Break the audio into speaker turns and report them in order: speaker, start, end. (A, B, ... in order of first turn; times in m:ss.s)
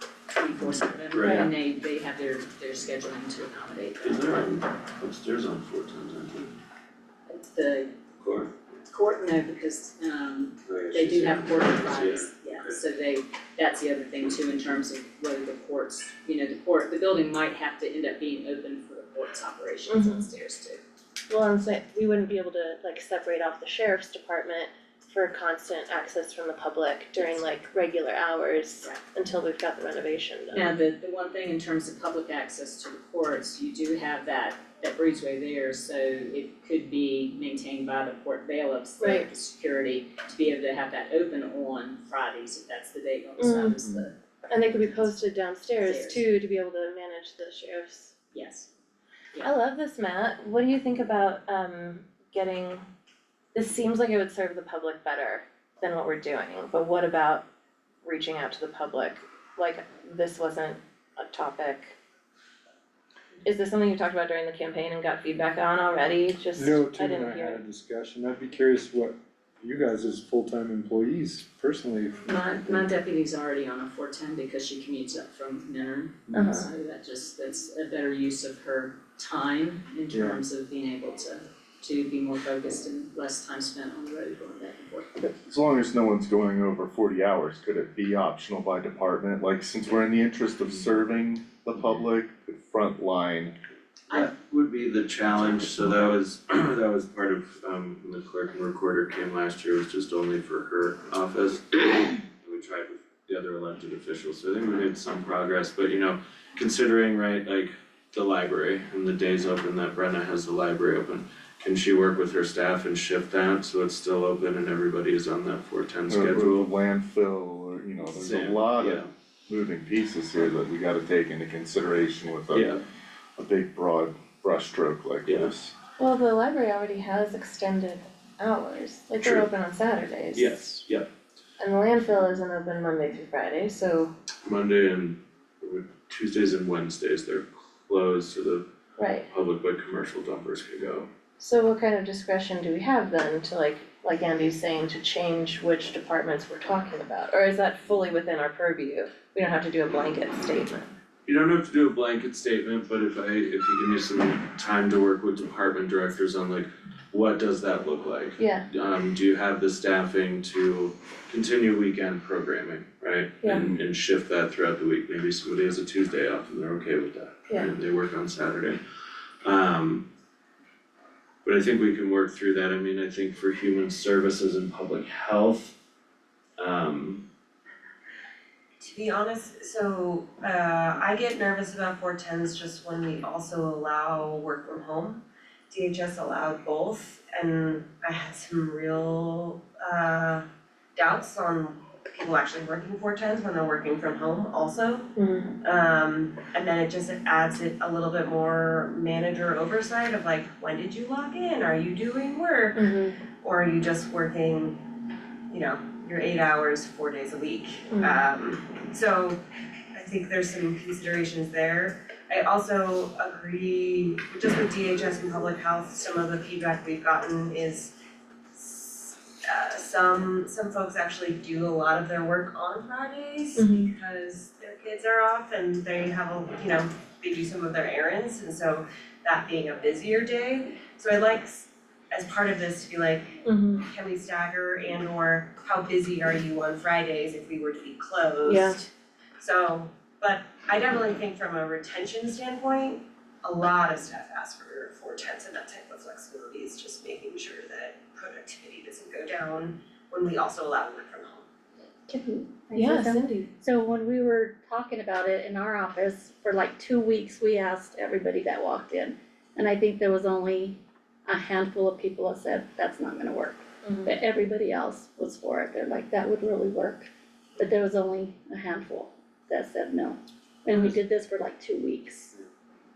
0:00.3-0:04.2 A
0:01.1-0:01.5 B
0:04.0-0:06.5 B
0:07.3-0:07.9 A
0:08.2-0:08.5 B
0:08.9-0:20.8 A
0:10.6-0:12.8 B
0:19.9-0:20.3 C
0:21.3-0:30.7 C
0:27.2-0:27.5 A
0:30.5-0:45.2 A
0:39.0-0:39.3 C
0:43.4-0:43.8 C
0:44.5-0:48.1 C
0:45.8-0:46.2 A
0:48.3-0:48.7 A
0:49.4-0:52.8 C
0:53.5-0:57.4 C
0:58.0-1:02.0 C
1:03.4-1:07.6 C
1:06.5-1:12.2 D
1:12.2-1:25.1 A
1:16.3-1:16.7 C
1:20.1-1:20.4 D
1:25.2-1:33.5 E
1:34.1-1:56.7 B
1:56.1-2:02.8 E
1:58.1-1:59.1 B
2:02.5-2:02.8 B
2:03.4-2:05.7 E
2:05.2-2:05.5 B
2:06.0-2:10.6 C
2:09.2-2:09.5 B
2:10.3-2:11.1 B
2:11.6-2:14.1 C
2:14.4-2:18.6 B
2:19.0-2:19.3 C
2:19.3-2:21.1 B
2:21.4-2:30.9 C
2:31.2-2:48.8 B
2:38.4-2:38.6 C
2:43.4-2:43.7 C
2:49.4-2:50.0 B
2:51.4-2:55.7 B
2:56.6-2:57.2 B
2:58.8-3:24.9 F
3:15.2-3:15.5 C
3:22.8-3:23.2 C
3:25.5-3:29.4 F
3:27.9-3:28.2 C
3:29.9-3:37.9 F
3:38.5-4:11.4 F
3:43.6-3:43.9 C
3:53.4-3:53.8 C
3:58.5-3:58.8 C
4:12.1-4:13.5 C
4:12.4-4:32.4 G
4:23.8-4:24.1 C